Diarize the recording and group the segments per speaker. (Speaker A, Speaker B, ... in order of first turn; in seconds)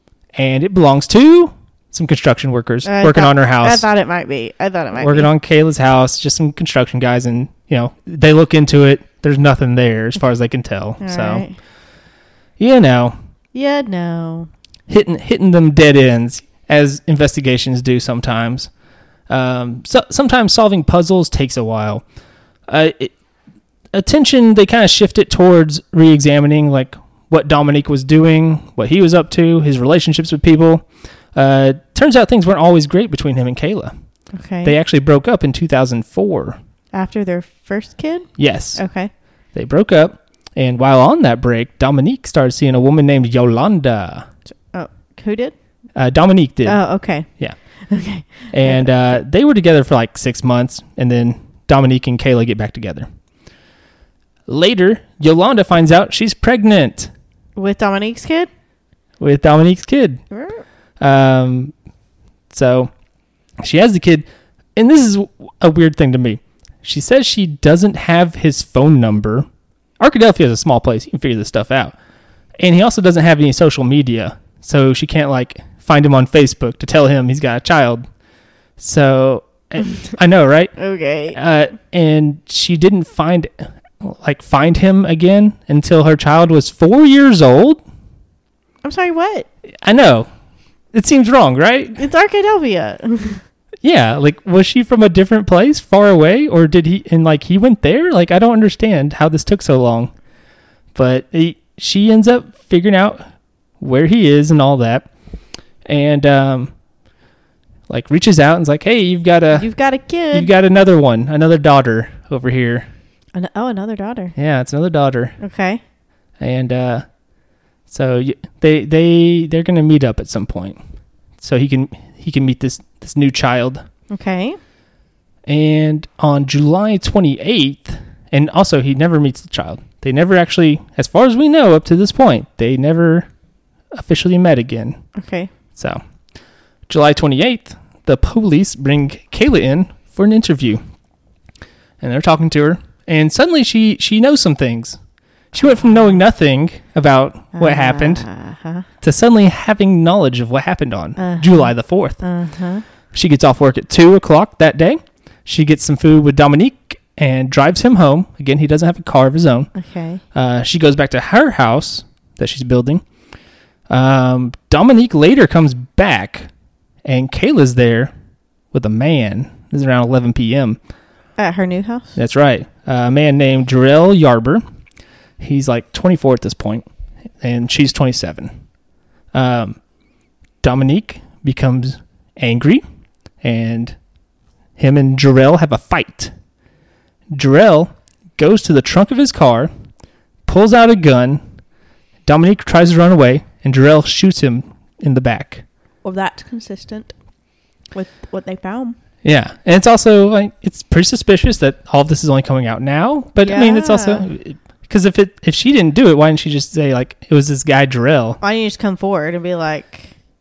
Speaker A: 0.3-3.9, 4.9-11.4, 12.6-13.1, 14.9-18.7, 19.3-22.0, 22.7-23.1, 23.9-33.9, 34.6-36.6, 38.4-38.8, 39.5-44.2, 45.9-46.8, 48.5-53.1, 54.5-57.1, 59.2-60.2, 61.0-61.7, 62.5-62.9, 63.6-69.5, 70.0-71.9, 72.6-78.0, 78.8-80.7, 81.3-87.8, 89.8-90.3, 90.9-92.0, 93.8-100.1, 100.9-103.2, 103.8-105.1, 105.8-106.7, 107.9-109.7, 110.3-112.9, 114.4-115.3, 116.4-117.0, 117.9-120.8, 121.4-123.8, 125.5-133.3, 133.9-135.0, 135.7-136.0, 136.9-140.8, 142.0-145.0, 145.5-148.2, 149.0-152.2, 153.1-159.7, 160.3-163.0, 163.9-166.5, 167.0-168.1, 168.7-170.8, 172.2-174.6, 175.4-176.8, 177.4-178.5, 179.3-179.8, 180.6-182.8, 183.4-183.9, 184.8-186.3, 187.3-189.7, 190.5-191.4, 192.2-195.6, 199.2-208.4
Speaker B: 2.8-5.3, 11.0-11.6, 13.5-14.5, 34.3-34.7, 36.9-39.1, 44.7-45.5, 46.6-47.3, 47.9-49.1, 57.5-58.5, 60.3-60.6, 80.8-81.4, 88.8-89.5, 91.9-93.4, 109.5-110.5, 113.3-114.3, 115.4-115.8, 124.1-124.6, 135.2-135.5, 147.5-148.8, 151.2-152.8, 159.7-160.2, 171.4-172.1, 196.0-197.1, 197.9-198.9, 203.4-204.3, 208.4-210.1